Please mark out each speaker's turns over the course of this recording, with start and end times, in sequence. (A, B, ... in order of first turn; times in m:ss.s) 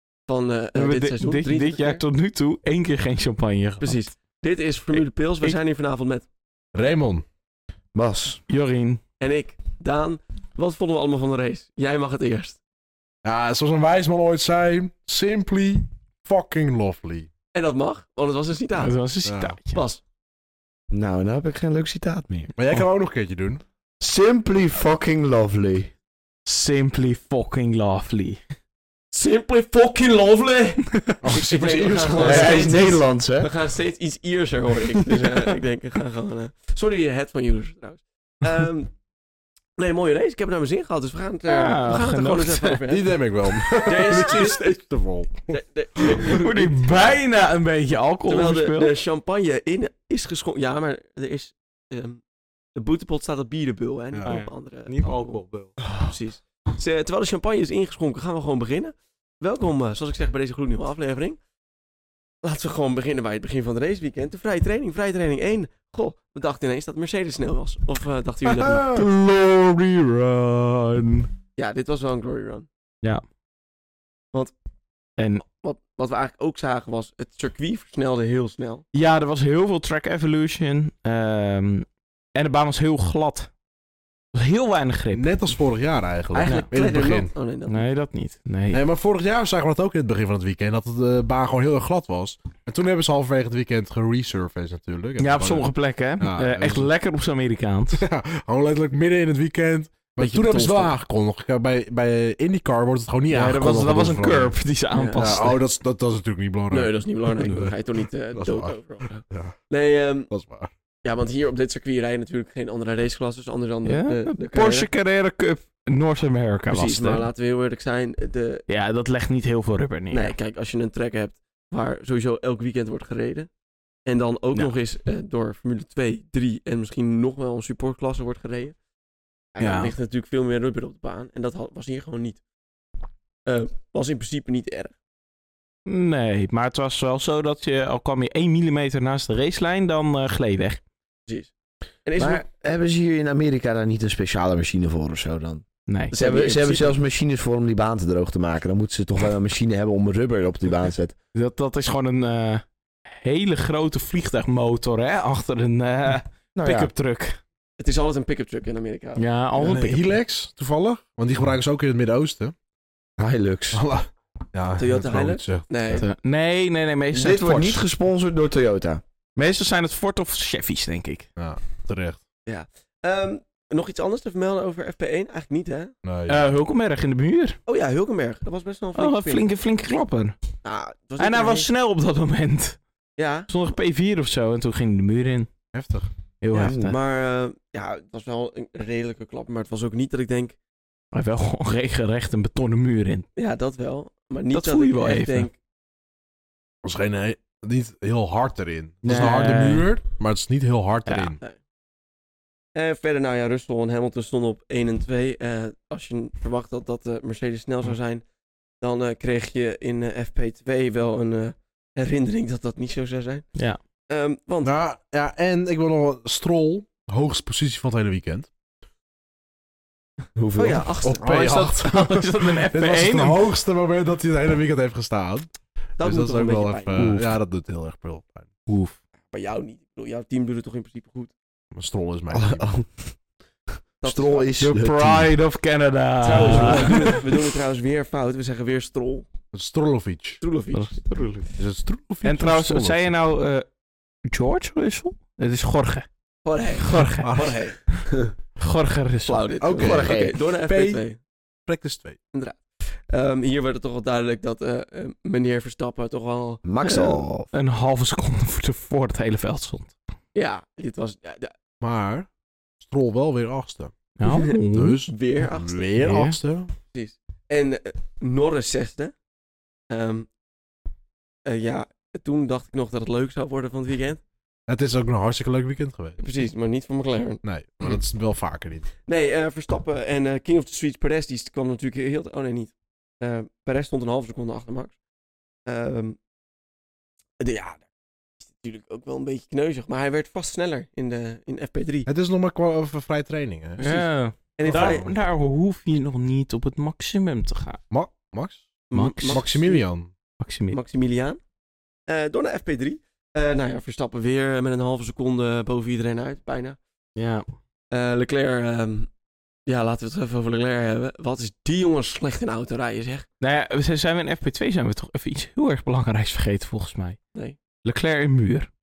0:00.3-0:02.0 A
0:00.7-0:04.1 B
0:03.8-0:06.3 A
0:05.0-0:05.6 B
0:06.7-0:07.2 C
0:07.9-0:08.4 D
0:08.5-0:09.0 B
0:09.2-0:12.6 A
0:13.2-0:17.3 C
0:17.5-0:19.0 A
0:18.8-0:19.8 B
0:19.2-0:19.6 C
0:19.7-0:20.0 A
0:20.9-0:22.5 D
0:22.6-0:23.6 C
0:24.0-0:25.9 D
0:26.4-0:28.4 B
0:29.1-0:38.9 A
0:31.2-0:32.7 C
0:32.2-0:33.5 D
0:39.8-0:43.1 A
0:41.5-0:42.8 B
0:42.9-0:45.6 C
0:43.8-0:44.7 A
0:45.5-0:47.2 A
0:46.2-0:48.9 B
0:48.3-0:52.2 A
0:52.7-0:55.4 A
0:54.2-0:55.8 B
0:56.0-1:01.4 A
1:02.4-1:08.9 A
1:08.6-1:09.0 C
1:08.8-1:11.3 B
1:11.6-1:12.7 A
1:15.2-1:15.4 B
1:15.5-1:18.8 A
1:18.9-1:23.5 B
1:24.3-1:25.4 B
1:25.1-1:27.3 C
1:26.3-1:27.8 A
1:27.7-1:28.8 B
1:28.7-1:36.9 C
1:35.2-1:38.0 B
1:37.9-1:44.6 C
1:40.2-1:40.9 A
1:43.3-1:45.6 B
1:44.9-1:45.3 A
1:45.2-1:47.8 C
1:46.7-1:50.3 A
1:48.3-1:48.8 C
1:49.3-1:49.6 C
1:50.3-1:50.7 C
1:51.0-1:54.9 A
1:53.8-1:57.2 B
1:56.7-1:58.6 A
1:58.7-2:00.3 B
2:00.1-2:03.5 A
2:04.0-2:08.8 A
2:09.5-2:12.4 A
2:09.6-2:09.9 B
2:13.4-2:14.9 A
2:15.8-2:20.8 B
2:21.3-2:21.5 A
2:22.0-2:22.4 A
2:22.2-2:31.1 D
2:25.9-2:26.1 B
2:26.1-2:26.9 A
2:31.3-2:37.4 B
2:36.6-2:36.9 D
2:37.8-2:39.9 A
2:39.2-2:40.0 B
2:39.6-2:42.5 C
2:43.2-2:43.8 D
2:43.7-2:46.0 C
2:44.8-2:46.0 A
2:45.9-2:47.8 B
2:47.1-2:49.0 D
2:49.4-2:51.3 B
2:51.4-2:52.2 C
2:52.4-2:55.9 A
2:56.0-2:56.4 C
2:56.3-2:57.6 B
2:57.7-2:59.4 A
2:59.0-3:00.4 B
3:00.6-3:01.7 A
3:01.2-3:02.8 B
3:03.2-3:03.5 A
3:03.5-3:05.5 B
3:05.7-3:06.1 C
3:06.4-3:07.0 B
3:06.5-3:10.6 A
3:06.6-3:06.9 D
3:11.1-3:13.3 B
3:13.4-3:15.5 A
3:14.5-3:15.5 B
3:16.8-3:21.4 C
3:19.0-3:19.9 B
3:21.0-3:21.3 B
3:22.7-3:28.2 A
3:28.8-3:33.4 A
3:34.1-3:34.7 A
3:34.6-3:38.5 C
3:40.4-3:40.9 D
3:40.5-3:41.3 A
3:41.0-3:48.5 C
3:41.2-3:43.4 B
3:46.0-3:47.1 A
3:47.0-3:47.2 D
3:48.7-3:49.0 B
3:49.3-3:51.3 A
3:51.7-3:52.7 C
3:52.3-3:53.0 D
3:54.0-3:54.5 A
3:54.0-3:55.3 D
3:54.6-3:57.2 B
3:56.2-3:59.3 A
3:56.3-3:57.1 D
3:59.5-4:00.4 C
4:00.4-4:01.0 A
4:00.7-4:01.5 B
4:01.6-4:03.0 C
4:02.2-4:03.7 B
4:04.3-4:06.0 B
4:06.4-4:07.8 A
4:06.8-4:07.3 B
4:07.2-4:07.5 C
4:08.6-4:09.4 B
4:09.2-4:11.2 A
4:09.6-4:11.0 C
4:09.8-4:10.3 D
4:11.6-4:12.2 C
4:12.3-4:17.2 A
4:16.6-4:17.5 D
4:17.5-4:19.9 B
4:20.3-4:21.5 A
4:21.8-4:22.3 C
4:22.8-4:23.9 C
4:24.2-4:25.0 B
4:24.2-4:25.8 A
4:24.7-4:26.7 C
4:26.0-4:26.4 B
4:26.9-4:29.1 A
4:29.9-4:30.3 A
4:31.4-4:34.2 A
4:34.7-4:36.2 C
4:36.2-4:37.4 A
4:37.4-4:38.9 C
4:39.0-4:44.9 A
4:45.7-4:46.2 A
4:47.4-4:47.8 A
4:48.4-4:52.1 A
4:52.1-4:54.0 C
4:53.8-4:55.1 A
4:53.8-4:57.8 B
4:54.6-4:55.1 C
4:57.9-5:00.1 C
4:58.9-4:59.8 A
4:58.9-4:59.5 B
5:00.4-5:00.8 B
5:00.7-5:01.4 A
5:02.1-5:06.8 A
5:07.2-5:07.4 B
5:07.9-5:09.1 A
5:09.7-5:13.3 A
5:13.4-5:17.2 B
5:17.8-5:18.7 B